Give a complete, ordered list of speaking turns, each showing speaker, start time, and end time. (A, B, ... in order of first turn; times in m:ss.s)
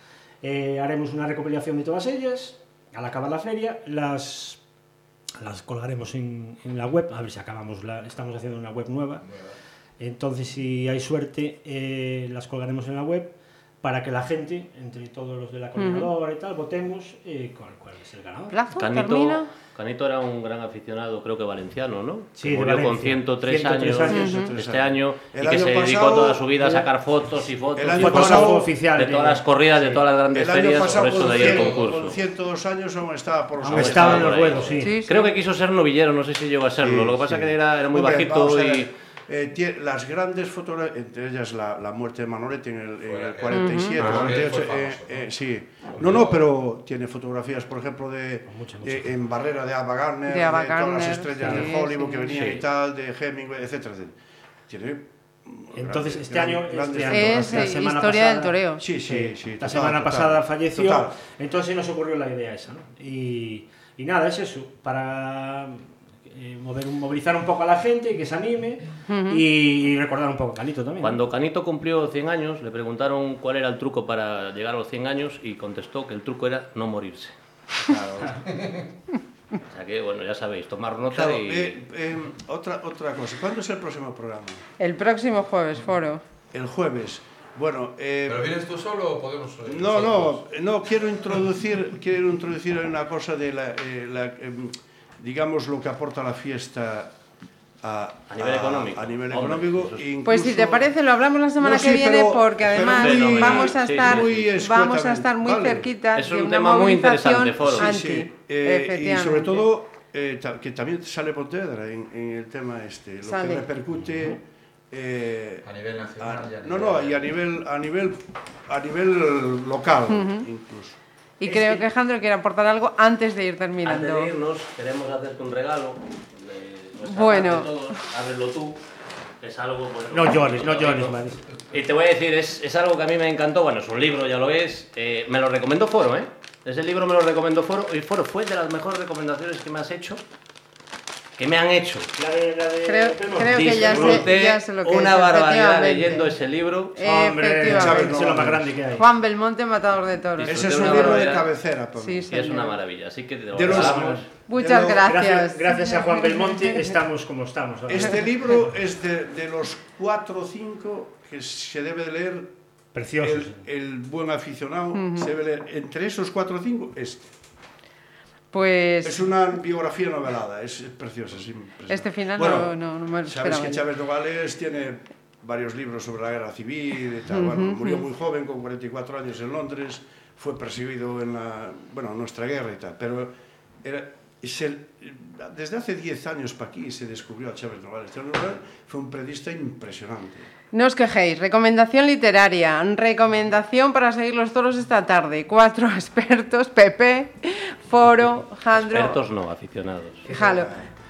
0:00.4-0:04.6 A
0:05.4-0:09.2 A
0:10.0-0:18.6 A
0:15.8-0:16.1 B
0:18.5-0:19.5 B
0:18.8-0:32.2 C
0:22.4-0:24.5 A
0:24.1-0:24.5 B
0:24.1-0:26.4 D
0:27.7-0:28.7 D
0:28.0-0:29.4 A
0:30.3-0:34.8 D
0:31.1-0:31.9 E
0:33.6-0:35.0 A
0:33.7-0:38.9 C
0:34.8-0:35.4 B
0:36.8-0:54.2 D
0:43.0-0:45.2 E
0:43.5-0:44.1 B
0:44.0-0:44.3 C
0:46.0-0:46.4 E
0:48.5-0:49.1 A
0:50.3-0:52.6 B
0:51.4-0:51.7 A
0:52.3-0:52.6 C
0:54.7-0:57.8 D
0:55.7-1:11.2 A
0:57.1-0:58.8 B
0:58.8-1:01.1 D
1:09.1-1:09.4 B
1:11.0-1:17.3 C
1:17.8-1:18.5 D
1:19.6-1:21.8 C
1:21.1-1:24.6 D
1:24.8-1:26.2 B
1:26.5-1:28.5 D
1:28.3-1:30.4 E
1:29.6-1:37.1 D
1:37.8-1:40.9 D
1:38.3-1:40.0 C
1:40.2-1:49.7 B
1:41.6-1:45.9 D
1:42.7-1:44.5 C
1:46.1-1:47.9 C
1:47.7-1:54.4 D
1:53.2-1:53.6 B
1:54.9-1:55.6 D
1:55.6-1:57.3 E
1:56.2-2:01.0 D
2:00.1-2:00.5 B
2:01.4-2:04.3 B
2:01.4-2:01.8 C
2:03.8-2:08.8 C
2:07.0-2:07.9 B
2:09.4-2:11.1 C
2:10.1-2:11.4 A
2:11.7-2:20.2 C
2:21.4-2:22.1 C
2:22.2-2:24.2 A
2:22.8-2:26.3 B
2:23.5-2:27.0 C
2:23.9-2:24.2 D
2:27.0-2:31.4 B
2:27.0-2:29.1 A
2:27.6-2:28.7 D
2:30.4-2:32.3 D
2:30.4-2:31.4 C
2:32.0-2:32.8 B
2:32.3-2:34.3 C
2:33.5-2:35.1 D
2:33.7-2:34.2 A
2:34.5-2:36.9 B
2:34.8-2:38.6 A
2:37.9-2:42.5 D
2:42.9-2:43.6 A
2:43.2-2:47.3 D
2:44.9-2:45.3 B
2:48.5-2:49.2 B
2:49.0-3:10.5 D
2:51.9-2:53.8 B
2:57.3-2:58.0 B
3:10.7-3:19.2 B
3:18.7-3:20.2 C
3:20.2-3:20.8 D
3:20.3-3:20.7 B